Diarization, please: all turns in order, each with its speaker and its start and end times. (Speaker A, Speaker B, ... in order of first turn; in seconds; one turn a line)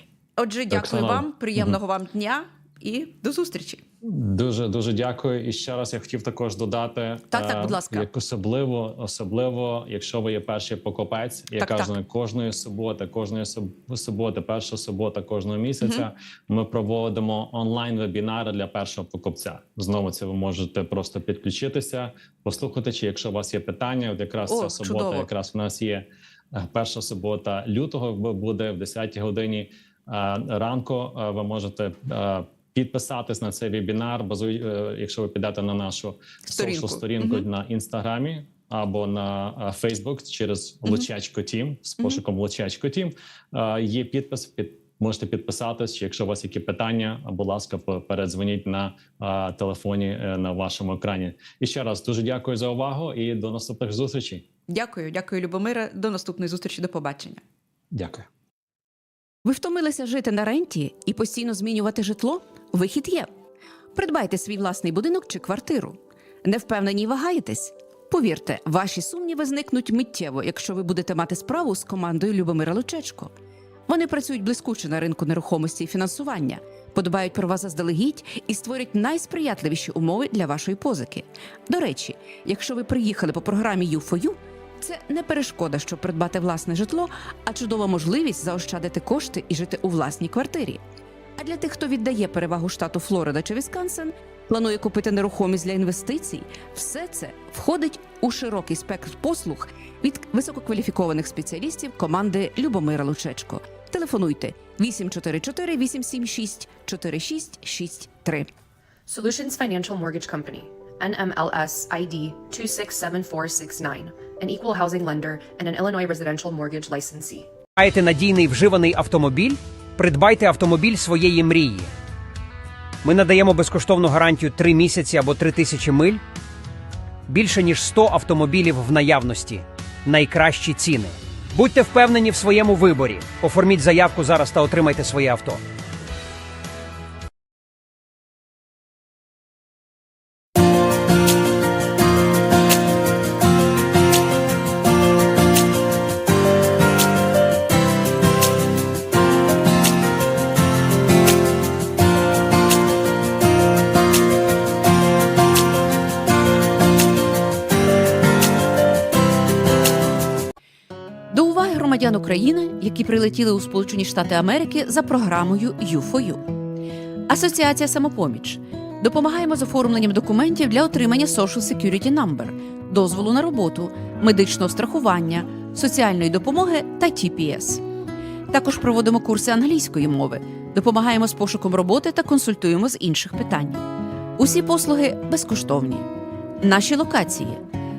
Speaker A: 0.4-3.8
Speaker B: 0.7-1.8
Speaker B: 4.0-54.5
Speaker A: 7.3-8.1
Speaker A: 11.6-11.9
Speaker A: 15.8-16.1
Speaker A: 24.5-25.3
Speaker A: 36.5-37.5
Speaker A: 54.7-57.4
Speaker B: 57.9-58.3
Speaker A: 59.4-63.3
Speaker A: 64.0-73.3
Speaker A: 73.9-90.8
Speaker A: 91.4-108.5
Speaker C: 109.1-117.5
Speaker D: 117.8-121.9
Speaker D: 123.0-126.2
Speaker D: 127.3-135.6
Speaker A: 161.3-166.5
Speaker A: 167.3-177.8
Speaker A: 178.5-183.8
Speaker A: 184.4-186.1
Speaker A: 186.6-187.6